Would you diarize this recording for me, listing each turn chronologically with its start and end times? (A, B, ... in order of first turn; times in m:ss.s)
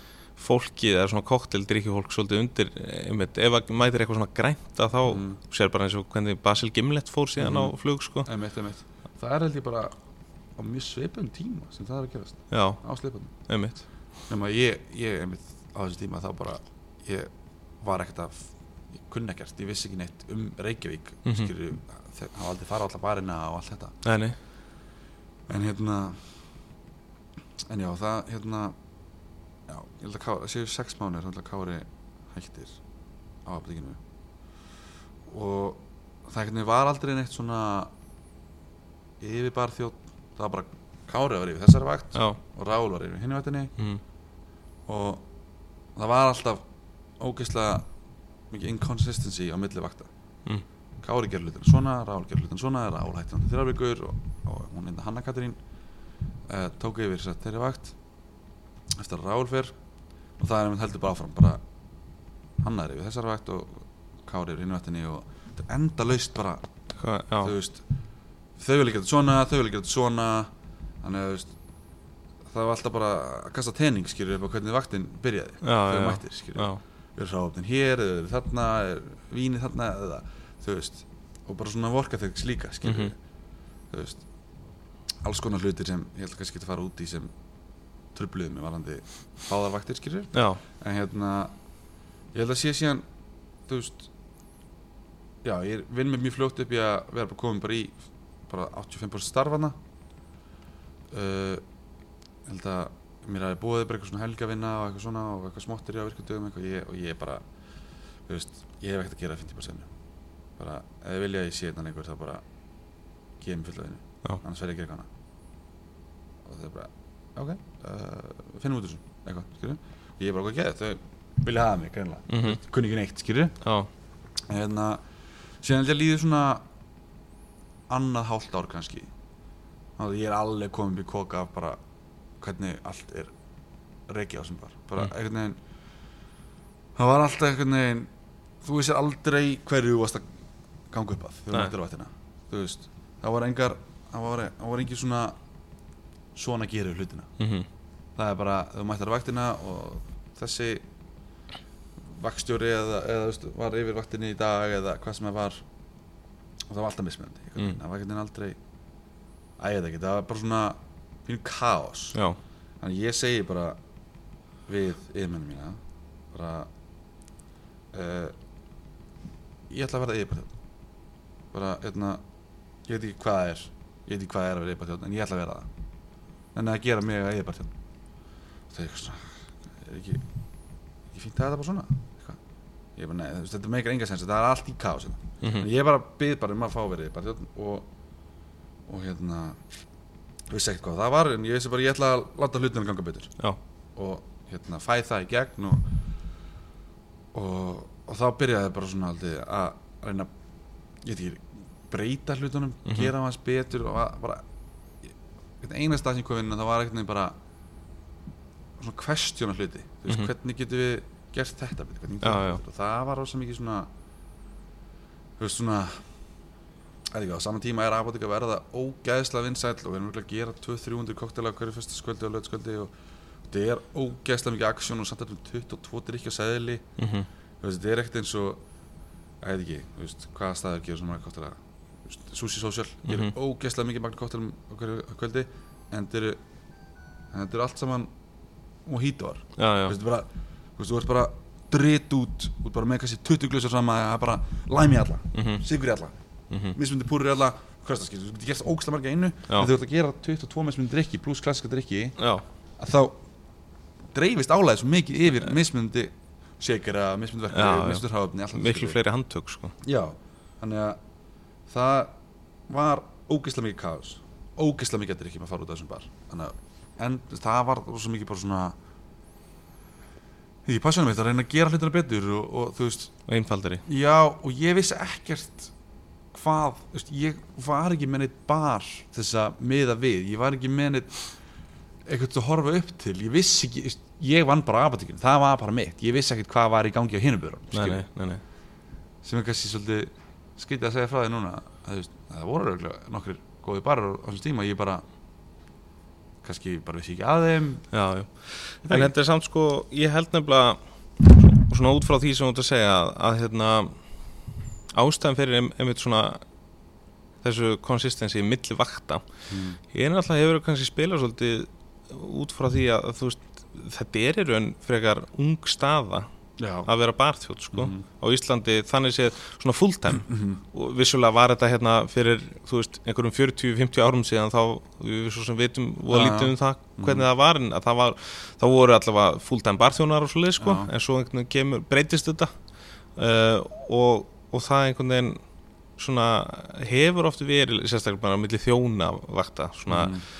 0:00.4-0:08.3 A
0:05.1-0:05.4 B
0:07.4-0:09.9 B
0:10.6-0:13.3 B
0:12.5-0:12.8 A
0:13.5-0:13.8 A
0:14.3-0:17.3 B
0:17.8-0:18.5 B
0:19.1-0:23.9 B
0:21.2-0:21.5 A
0:24.0-0:24.4 A
0:25.5-0:26.2 B
0:27.7-0:28.7 B
0:29.7-0:32.8 B
0:33.4-0:34.0 B
0:35.3-0:37.9 B
0:39.2-0:43.7 B
0:44.9-0:45.2 B
0:46.0-0:46.6 B
0:47.2-0:47.8 B
0:48.5-0:50.1 B
0:51.0-0:55.6 B
0:56.5-0:57.9 B
0:59.0-0:59.7 B
1:00.4-1:01.6 B
1:02.6-1:06.6 B
1:07.0-1:07.5 A
1:07.4-1:07.8 B
1:08.6-1:10.5 B
1:11.0-1:11.5 B
1:12.5-1:23.2 B
1:15.6-1:16.8 A
1:22.8-1:23.1 A
1:23.9-1:24.2 B
1:25.2-1:27.3 B
1:28.1-1:31.5 B
1:30.3-1:30.6 A
1:32.3-1:33.0 B
1:33.7-1:34.1 B
1:35.4-1:38.0 B
1:38.5-1:39.7 B
1:41.1-1:41.6 B
1:42.5-1:47.4 B
1:48.3-1:49.9 B
1:50.6-1:52.4 B
1:53.4-1:55.1 B
1:56.4-2:03.6 B
2:02.3-2:02.6 A
2:03.6-2:03.9 A
2:04.5-2:05.0 B
2:05.6-2:06.6 B
2:07.9-2:09.1 B
2:10.0-2:11.8 B
2:12.4-2:13.3 B
2:14.1-2:15.6 B
2:17.0-2:18.1 B
2:18.6-2:20.2 B
2:20.9-2:25.4 B
2:26.3-2:27.3 B
2:27.4-2:27.7 A
2:28.2-2:30.8 B
2:32.1-2:35.6 B
2:36.7-2:38.6 B
2:39.6-2:42.2 B
2:42.8-2:43.8 B
2:44.7-2:45.8 B
2:46.3-2:46.7 B
2:47.9-2:48.3 B
2:49.7-2:50.5 B
2:51.5-2:52.2 B
2:52.9-2:55.7 B
2:56.5-2:57.7 B
2:58.7-2:59.3 B
2:59.8-3:00.2 B
3:01.1-3:02.4 B
3:03.0-3:07.9 B
3:05.4-3:05.7 A
3:08.9-3:09.6 B
3:10.5-3:13.3 B
3:14.0-3:15.8 B
3:17.3-3:20.3 B
3:21.0-3:24.4 B
3:22.8-3:23.1 A
3:25.6-3:27.3 B
3:28.8-3:33.9 B
3:32.2-3:32.6 A
3:35.4-3:35.9 B
3:37.1-3:42.9 B
3:43.5-3:46.8 B
3:47.0-3:47.3 A
3:47.6-3:48.6 B
3:49.4-3:56.4 B
3:53.0-3:53.3 A
3:57.3-3:58.1 B
3:58.8-4:06.1 B
3:59.6-3:59.9 A
4:05.3-4:05.6 A
4:06.5-4:06.8 A
4:06.7-4:12.2 B
4:12.2-4:12.4 A
4:12.8-4:13.2 B
4:14.1-4:19.0 B
4:17.5-4:19.7 A
4:19.8-4:21.0 B
4:21.7-4:22.1 B
4:22.7-4:28.8 B
4:30.6-4:33.1 B
4:33.3-4:33.8 A
4:33.8-4:35.7 B
4:36.3-4:41.2 B
4:42.0-4:48.0 B
4:47.7-4:48.4 A
4:49.2-4:55.0 B
4:56.4-4:57.8 B
4:57.9-5:04.0 A
4:58.8-4:59.1 B
5:04.9-5:06.4 A
5:07.4-5:09.2 A
5:09.5-5:09.8 B
5:09.9-5:16.3 A
5:16.6-5:16.9 B
5:16.8-5:32.5 A
5:17.7-5:18.0 B
5:20.2-5:20.6 B
5:26.1-5:27.3 B
5:30.6-5:30.9 B
5:33.2-5:35.4 A
5:36.0-5:40.1 A
5:39.9-5:40.2 B